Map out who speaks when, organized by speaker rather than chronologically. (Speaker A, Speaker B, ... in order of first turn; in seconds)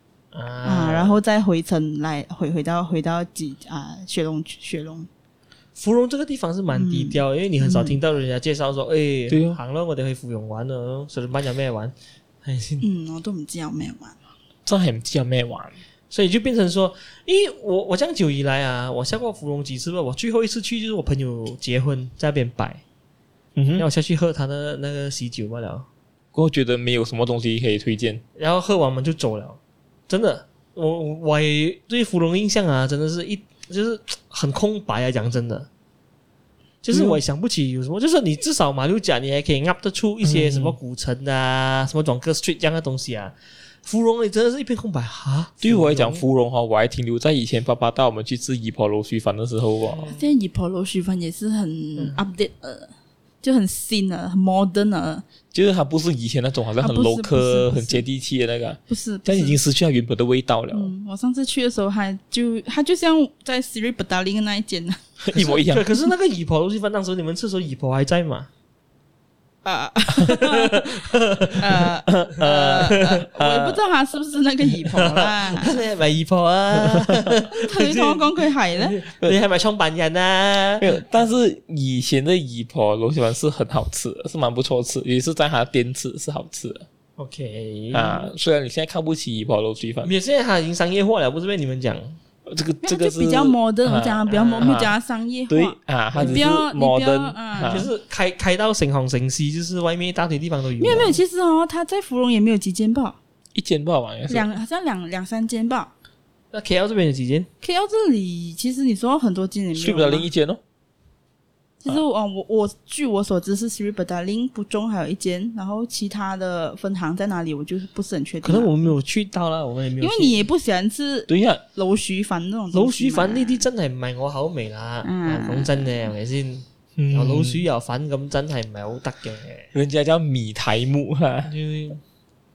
Speaker A: 0.3-1.2, 5.8-11.9, 12.4-12.8, 16.1-22.8, 23.8-25.9, 28.4-35.7, 36.8-46.2, 49.9-50.2, 65.4-68.5, 70.2-71.8, 72.4-73.3, 74.9-81.0, 87.2-88.3, 90.0-92.2, 94.3-94.8, 96.2-96.5, 97.7-101.2, 106.5-107.5, 118.4-120.5, 122.7-129.7, 131.5-132.0
Speaker B: 0.6-5.1, 6.7-8.0, 12.8-14.2, 50.1-52.9, 53.4-55.2, 56.8-58.0, 58.9-59.6, 60.7-65.6, 69.6-71.1, 71.6-75.8, 77.5-79.0, 92.8-97.9, 100.8-103.2, 104.3-105.9, 107.6-110.3, 111.8-118.9, 120.0-123.7, 125.0-126.0
Speaker C: 9.3-9.6, 14.7-15.8, 23.6-23.9, 26.3-28.2, 36.9-37.2, 40.2-40.8, 45.6-50.1, 55.5-60.9, 65.2-65.9, 76.9-77.3, 80.8-86.9, 87.9-90.1, 92.5-95.0, 95.5-97.9, 103.5-104.5, 109.8-110.6, 121.3-121.6, 127.0-127.6, 129.7-131.5